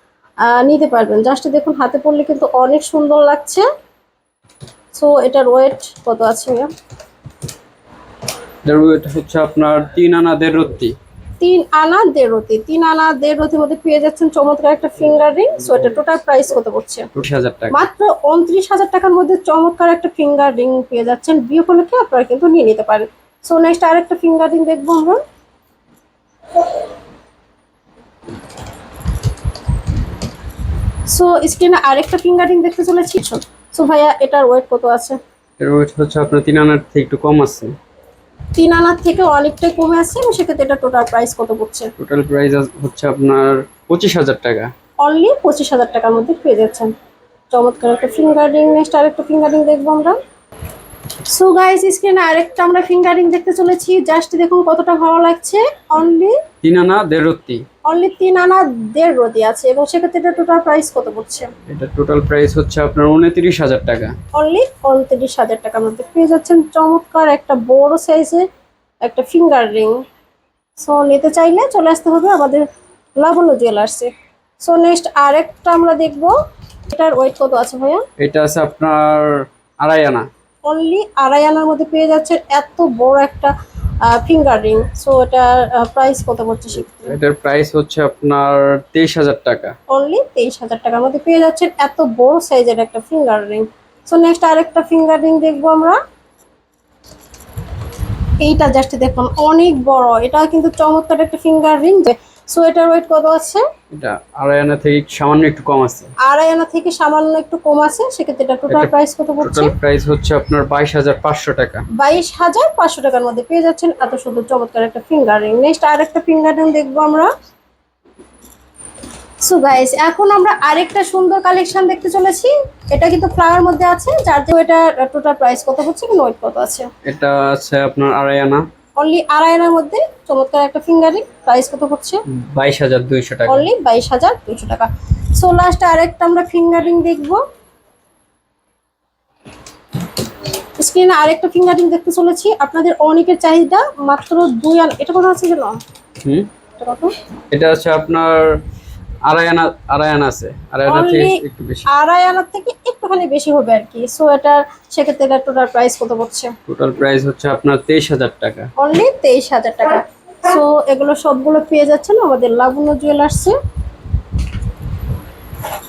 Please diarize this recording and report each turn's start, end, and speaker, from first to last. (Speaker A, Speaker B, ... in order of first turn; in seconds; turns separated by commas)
Speaker A: 0.4-3.6, Speaker A: 4.9-6.7, Speaker B: 8.6-10.9, Speaker A: 11.4-17.1, Speaker B: 17.1-17.8, Speaker A: 17.7-25.2, Speaker A: 31.1-35.2, Speaker B: 35.6-37.7, Speaker A: 38.5-41.9, Speaker B: 42.0-44.7, Speaker A: 45.0-46.9, Speaker A: 47.5-50.2, Speaker A: 51.3-56.4, Speaker B: 56.6-57.6, Speaker A: 57.9-61.5, Speaker B: 61.7-64.1, Speaker A: 64.3-68.5, Speaker A: 69.0-70.0, Speaker A: 70.8-72.6, Speaker A: 73.2-76.3, Speaker A: 76.9-78.0, Speaker B: 78.2-80.2, Speaker A: 80.7-87.2, Speaker B: 87.0-89.7, Speaker A: 89.9-96.0, Speaker A: 98.4-103.6, Speaker B: 103.9-106.1, Speaker A: 106.2-109.7, Speaker B: 108.7-111.8, Speaker A: 112.0-117.3, Speaker A: 119.4-126.9, Speaker B: 127.0-128.6, Speaker A: 129.0-132.2, Speaker B: 132.3-133.7, Speaker A: 133.5-137.4, Speaker A: 140.8-145.8, Speaker B: 146.2-146.5, Speaker A: 146.8-147.1, Speaker B: 147.5-148.6, Speaker B: 149.2-151.8, Speaker A: 150.9-156.5, Speaker B: 156.7-158.7, Speaker A: 158.8-163.6